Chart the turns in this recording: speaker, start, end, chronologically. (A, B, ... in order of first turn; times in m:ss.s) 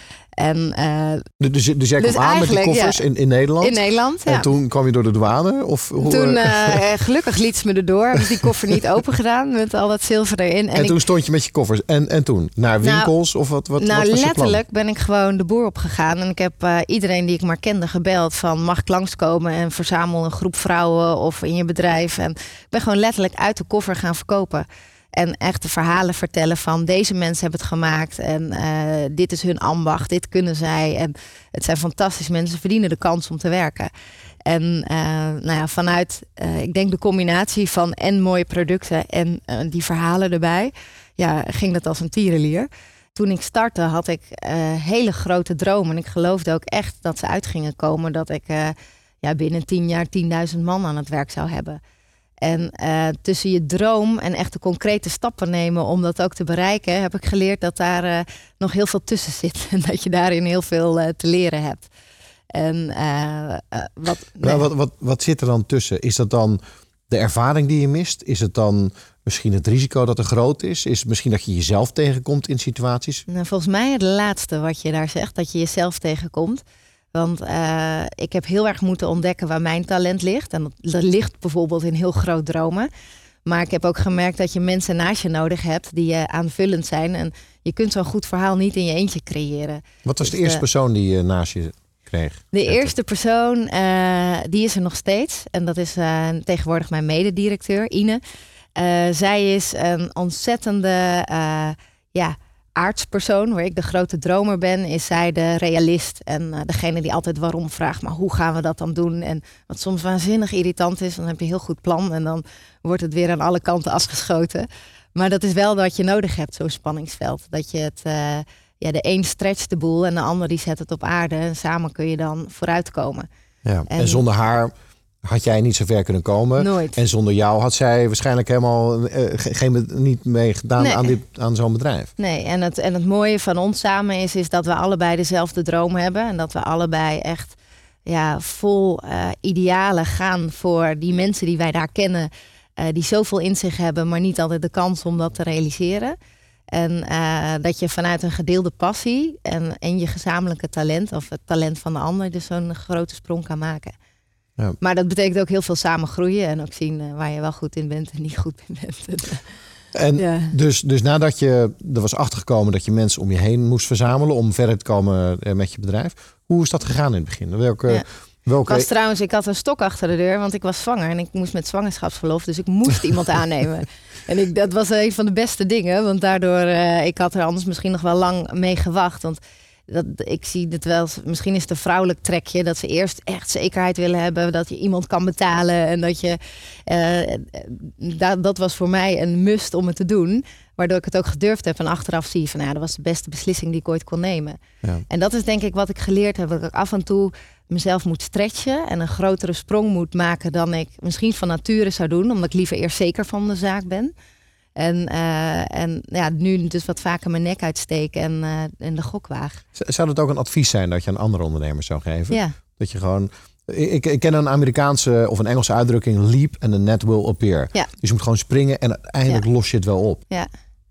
0:00.4-0:01.2 A
0:01.4-0:03.8 B
0:02.0-0:03.0 A
0:03.6-0:04.5 A
0:04.3-0:06.8 B
0:06.0-0:11.0 A
0:10.7-0:14.6 B
0:12.8-0:13.1 A
0:13.8-0:33.9 A
0:34.4-0:51.8 A
0:52.4-1:01.9 A
1:02.5-1:04.6 A
1:04.4-1:13.2 B
1:13.3-1:16.6 A
1:17.1-1:22.9 A
1:23.4-1:30.6 A
1:30.0-1:32.9 B
1:32.5-1:38.2 A
1:38.8-2:03.3 A
2:03.6-2:04.7 B
2:03.9-2:04.2 A
2:05.2-2:12.1 B
2:06.6-2:07.0 A
2:10.8-2:11.1 A
2:12.2-2:17.6 A
2:18.1-2:26.2 A
2:26.7-2:33.9 A
2:34.8-2:39.4 A
2:39.9-2:48.9 B
2:40.2-2:40.5 A
2:48.6-3:24.1 A
3:24.8-3:29.6 A
3:29.8-3:40.2 B